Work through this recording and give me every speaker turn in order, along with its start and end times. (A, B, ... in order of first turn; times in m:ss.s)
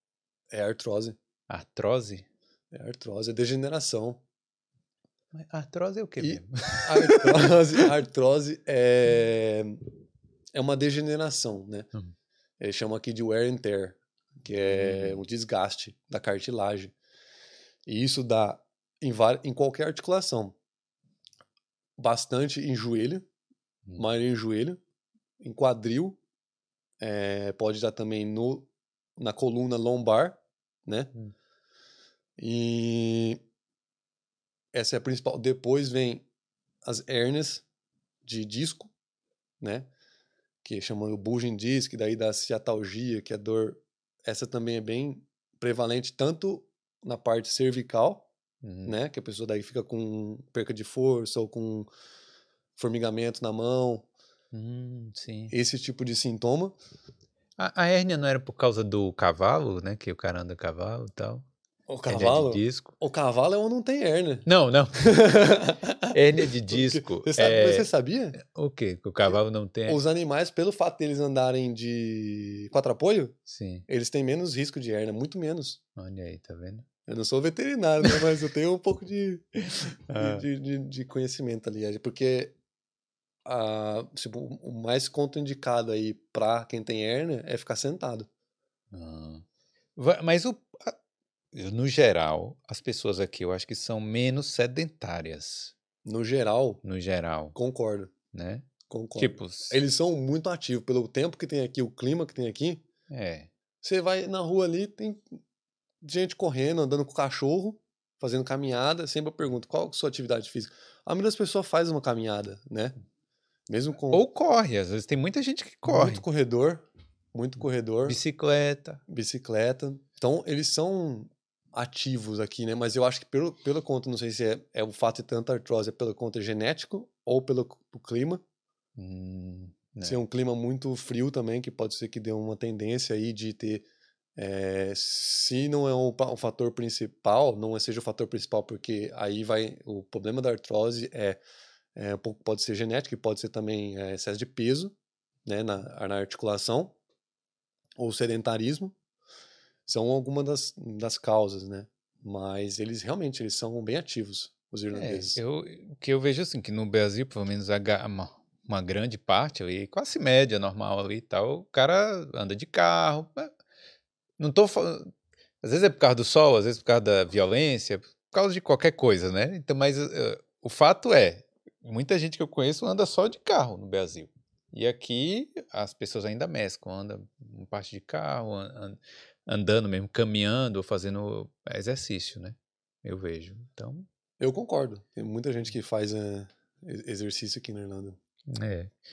0:00.5-0:01.2 A
0:01.5-0:02.2 B
0:02.7-0:04.2 A
0:05.3-0:07.9 B
0:06.2-0:09.8 A
0:10.5-0:11.9 A
0:12.6-0:16.9 A
0:14.6-0:15.2 B
0:17.8-0:20.5 A
0:22.0-0:23.2 A
0:24.0-0:24.8 A
0:25.4-0:26.2 A
0:27.0-0:31.1 A
0:32.4-0:33.4 A
0:34.7-0:36.2 A
0:36.8-0:37.6 A
0:38.2-0:38.9 A
0:39.6-0:39.9 A
0:40.6-0:48.3 A
0:48.6-0:48.9 B
0:48.8-0:51.9 A
0:52.8-0:54.1 A
0:54.5-0:55.5 B
0:55.5-0:56.8 A
0:57.6-1:01.4 B
1:01.9-1:04.5 A
1:02.1-1:03.0 B
1:04.4-1:05.2 B
1:05.0-1:08.4 A
1:06.1-1:07.9 B
1:08.4-1:10.0 B
1:09.9-1:13.4 A
1:13.5-1:13.8 B
1:13.9-1:15.8 A
1:16.0-1:16.8 B
1:17.1-1:19.6 A
1:20.1-1:20.4 B
1:20.1-1:22.6 A
1:23.4-1:28.3 A
1:28.9-1:29.4 B
1:30.0-1:30.9 B
1:31.5-1:35.7 B
1:36.0-1:36.8 A
1:36.8-1:37.6 B
1:37.5-1:38.1 A
1:38.3-1:39.8 B
1:38.9-1:42.8 A
1:43.1-1:43.5 B
1:43.8-1:45.2 A
1:46.0-1:52.9 A
1:53.7-1:54.2 A
1:54.1-1:56.2 B
1:55.8-1:58.2 A
1:58.1-1:59.0 B
1:59.1-2:08.4 A
2:09.0-2:10.2 B
2:10.0-2:21.4 A
2:21.9-2:24.9 A
2:25.4-2:27.0 A
2:28.0-2:28.9 A
2:29.8-2:35.4 A
2:34.9-2:43.5 B
2:44.4-2:45.1 B
2:45.6-3:04.1 B
3:04.4-3:08.2 A
3:08.5-3:08.9 B